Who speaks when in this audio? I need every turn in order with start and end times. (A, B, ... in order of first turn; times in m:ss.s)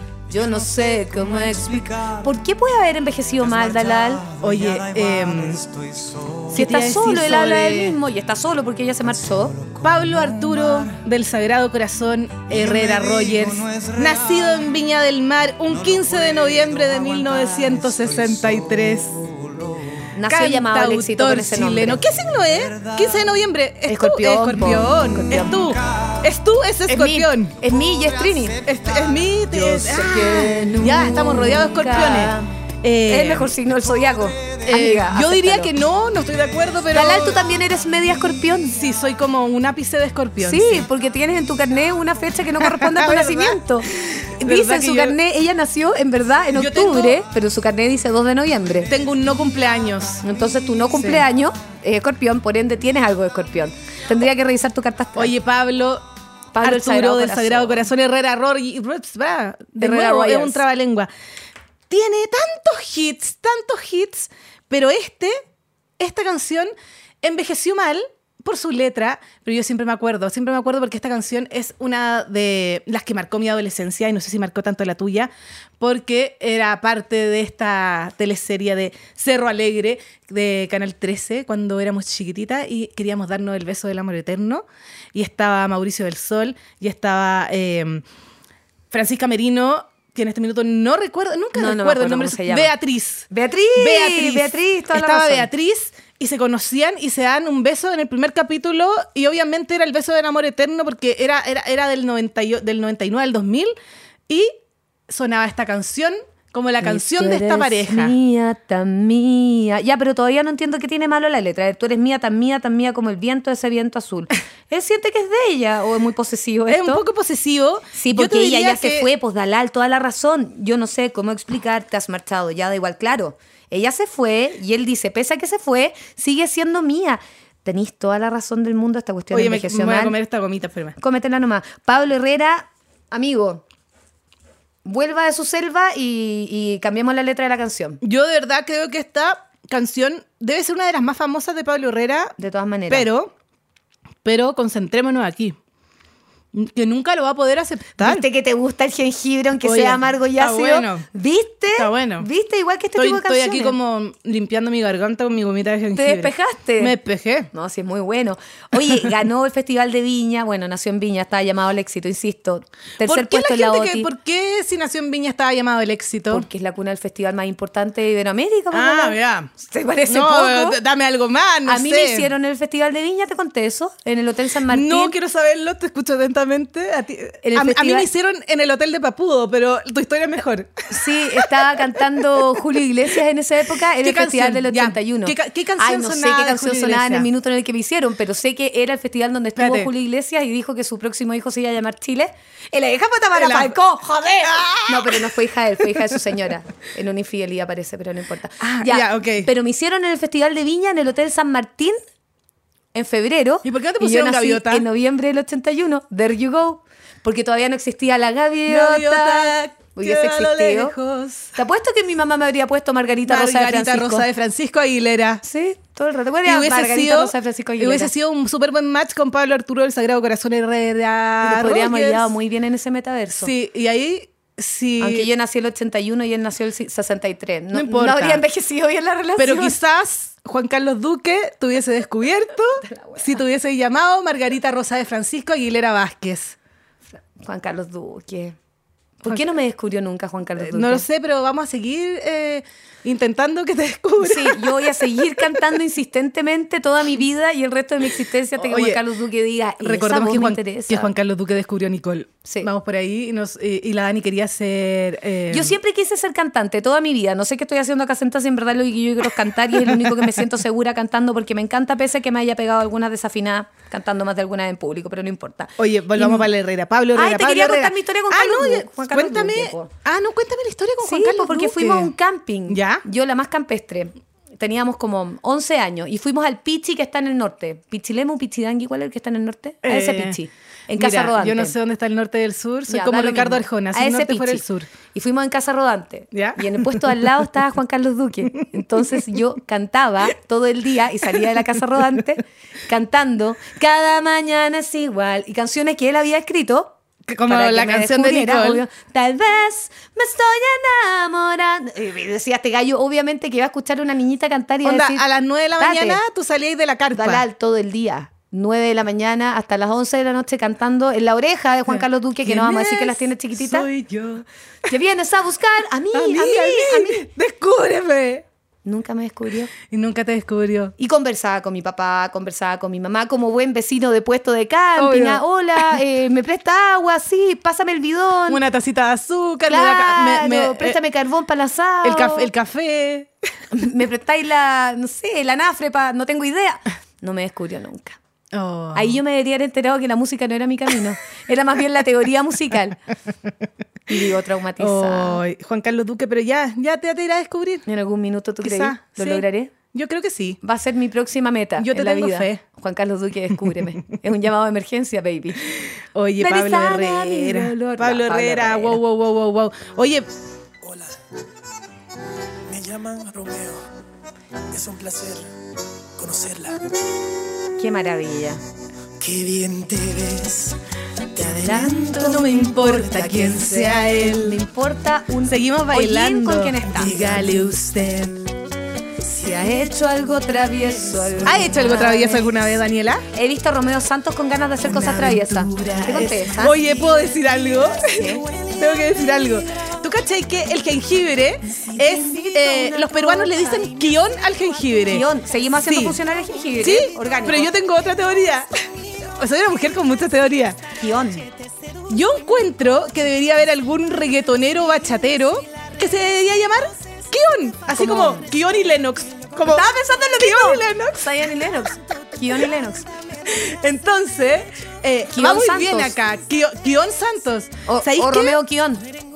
0:00.3-0:04.3 A
0:04.4-0:05.7 B
0:06.4-0:08.0 B
0:06.5-0:09.6 A
0:09.8-0:19.3 B
0:20.1-0:22.0 A
0:20.3-0:27.6 B
0:23.9-0:25.7 A
0:26.9-0:28.6 A
0:28.6-0:33.5 B
0:29.5-0:32.5 A
0:33.1-0:35.7 A
0:34.6-0:37.4 B
0:36.9-0:38.8 A
0:38.7-0:40.9 B
0:40.4-0:48.9 A
0:42.6-0:45.2 B
0:46.5-0:47.2 B
0:48.9-0:50.2 B
0:50.2-0:55.3 A
0:50.9-0:51.2 B
0:55.2-0:56.0 B
0:56.5-0:57.9 A
0:56.6-1:01.1 B
0:59.8-1:00.6 A
1:01.9-1:05.4 B
1:06.0-1:06.7 B
1:07.2-1:28.0 B
1:28.9-1:43.7 B
1:31.5-1:32.7 A
1:33.3-1:35.5 A
1:44.3-1:44.5 B
1:45.1-1:48.2 B
1:46.8-1:57.0 A
1:56.7-1:59.1 B
1:57.9-2:10.2 A
2:09.3-2:11.0 B
2:11.0-2:13.6 A
2:14.8-2:18.0 A
2:18.0-2:22.4 B
2:22.4-2:23.1 A
2:22.9-2:23.3 B
2:24.2-2:25.6 B
2:26.5-2:28.2 B
2:28.0-2:33.7 A
2:29.6-2:31.1 B
2:31.8-2:32.3 B
2:33.0-2:37.5 B
2:35.9-2:37.0 A
2:37.5-2:44.1 A
2:43.0-2:46.4 B
2:46.3-2:50.8 A
2:48.7-2:49.5 B
2:50.1-2:52.3 B
2:51.6-2:55.1 A
2:54.7-3:01.8 B
2:57.4-2:58.1 A
3:00.9-3:22.0 A
3:04.0-3:07.3 B
3:09.6-3:09.9 B
3:13.3-3:13.7 B
3:14.4-3:15.4 B
3:18.6-3:19.5 B
3:22.9-3:30.9 A
3:23.6-3:24.8 B
3:28.6-3:31.5 B
3:31.5-3:34.2 A
3:33.2-3:35.4 B
3:35.4-3:38.1 A
3:36.4-3:42.3 B
3:41.4-3:43.5 A
3:43.3-3:45.3 B
3:45.0-3:49.8 A
3:47.7-3:48.4 B
3:49.4-3:56.6 B
3:52.8-3:53.4 A
3:57.4-3:58.6 A
3:59.2-4:01.0 A
4:00.6-4:05.6 B
4:04.2-4:11.1 A
4:08.6-4:09.0 B
4:09.8-4:15.8 B
4:15.5-4:26.5 A
4:25.8-4:32.1 B
4:27.1-4:29.9 A
4:31.0-4:41.7 A
4:32.7-4:33.0 B
4:39.8-4:40.4 B
4:40.9-4:44.9 B
4:42.9-5:05.2 A
4:46.3-4:47.2 B
4:48.6-4:49.0 B
4:51.4-4:51.8 B
4:57.3-4:58.8 B
5:04.8-5:07.4 B
5:05.8-5:06.2 A
5:07.1-5:13.9 A
5:11.9-5:14.4 B
5:14.8-5:17.3 A
5:16.1-5:18.4 B
5:18.8-5:19.7 A
5:19.8-5:20.9 B
5:21.0-5:28.6 A
5:25.0-5:26.0 B
5:28.5-5:31.0 B
5:29.7-5:32.5 A
5:32.0-5:33.3 B
5:33.7-5:38.2 A
5:38.5-5:39.2 B
5:38.9-5:43.0 A
5:44.1-5:45.4 A
5:44.8-5:47.8 B
5:47.8-5:49.7 A
5:48.6-5:50.6 B
5:50.6-5:55.7 A
5:51.8-5:52.6 B
5:56.1-6:00.3 B
5:56.4-5:59.0 A
6:00.8-6:01.1 C
6:02.7-6:03.8 C
6:04.7-6:05.5 C
6:06.2-6:06.9 C
6:07.8-6:08.6 A
6:09.2-6:10.8 C
6:11.4-6:17.4 A
6:11.4-6:14.6 B
6:15.4-6:18.5 B
6:19.2-6:22.6 A
6:21.4-6:23.2 B
6:23.3-6:26.8 A
6:24.8-6:35.3 B
6:28.1-6:28.4 A
6:31.8-6:33.8 A
6:35.1-6:37.7 A
6:35.8-6:36.2 B
6:36.8-6:40.9 B
6:41.0-6:41.5 A
6:42.1-6:51.3 B
6:47.9-6:48.5 A
6:49.6-6:53.1 A
6:53.4-6:58.6 B
6:55.3-6:56.2 A
6:57.8-6:59.0 A